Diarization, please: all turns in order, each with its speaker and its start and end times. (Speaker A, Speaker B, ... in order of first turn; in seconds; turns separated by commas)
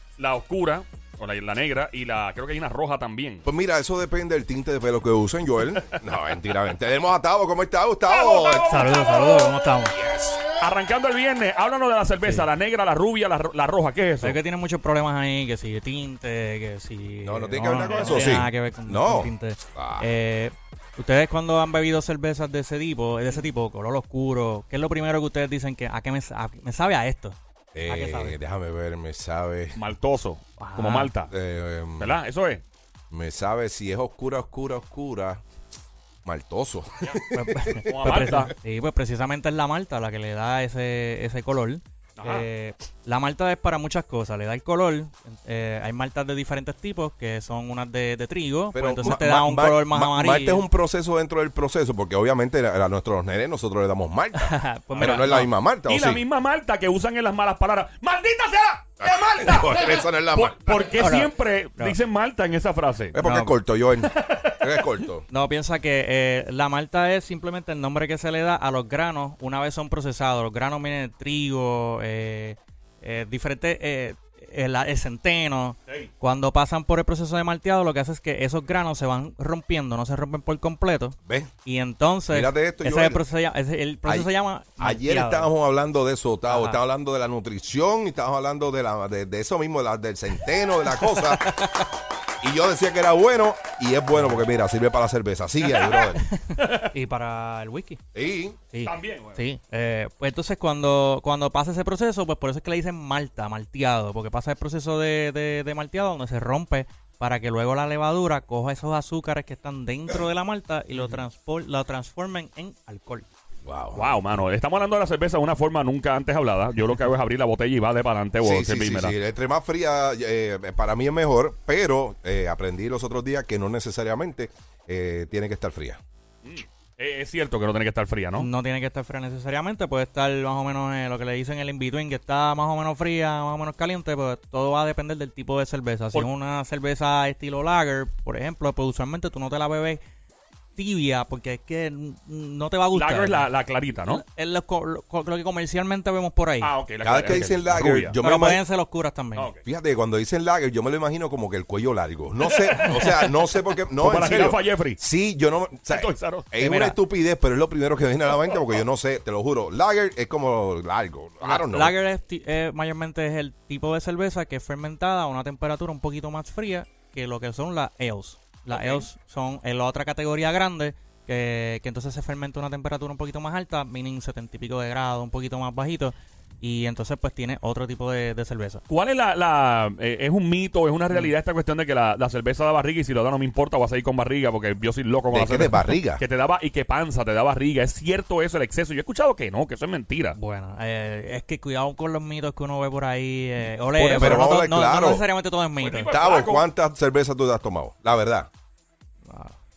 Speaker A: 0.2-3.5, Speaker B: 3.5-8.8, Speaker A: 8.1-9.5, Speaker C: 8.7-9.9, Speaker B: 9.9-10.4, Speaker A: 10.6-14.4, Speaker C: 14.2-28.4, Speaker B: 17.2-20.1, Speaker A: 17.9-18.1, Speaker B: 27.8-29.8, Speaker A: 29.8-31.3, Speaker C: 30.6-31.1, Speaker B: 31.3-32.2, Speaker A: 32.0-32.6, Speaker B: 33.1-35.4, Speaker B: 36.2-37.8, Speaker C: 37.3-50.6, Speaker A: 37.9-38.5, Speaker A: 42.2-42.5, Speaker B: 48.7-56.2, Speaker C: 54.4-55.5, Speaker A: 54.9-55.3, Speaker A: 55.9-63.2, Speaker B: 59.0-60.9, Speaker C: 61.0-62.0, Speaker B: 63.1-65.3, Speaker C: 63.2-63.6, Speaker A: 64.0-64.6, Speaker C: 65.3-85.5, Speaker B: 82.3-83.2, Speaker B: 84.1-91.8, Speaker C: 86.5-86.8, Speaker C: 90.9-91.9, Speaker B: 92.4-96.2, Speaker C: 94.2-94.4, Speaker A: 95.7-96.9, Speaker C: 96.2-98.0, Speaker B: 98.1-98.6, Speaker C: 98.7-113.3, Speaker A: 98.8-99.4, Speaker B: 113.7-114.1, Speaker A: 114.0-119.2, Speaker B: 118.4-126.0, Speaker A: 126.4-128.5, Speaker C: 128.4-140.0, Speaker C: 140.8-143.5, Speaker A: 142.9-144.2, Speaker C: 144.1-146.7, Speaker A: 146.6-148.2, Speaker B: 147.0-148.6, Speaker C: 148.2-149.5, Speaker A: 149.4-149.7, Speaker B: 149.7-162.0, Speaker A: 152.4-153.3, Speaker A: 154.0-155.0, Speaker A: 155.9-156.5, Speaker C: 156.6-157.0, Speaker C: 161.4-178.8, Speaker A: 168.7-169.1, Speaker A: 178.9-190.4, Speaker B: 185.3-186.2, Speaker C: 190.4-196.1, Speaker A: 194.0-194.5, Speaker B: 194.0-195.2, Speaker A: 195.8-196.7, Speaker B: 196.1-198.5, Speaker C: 199.3-199.6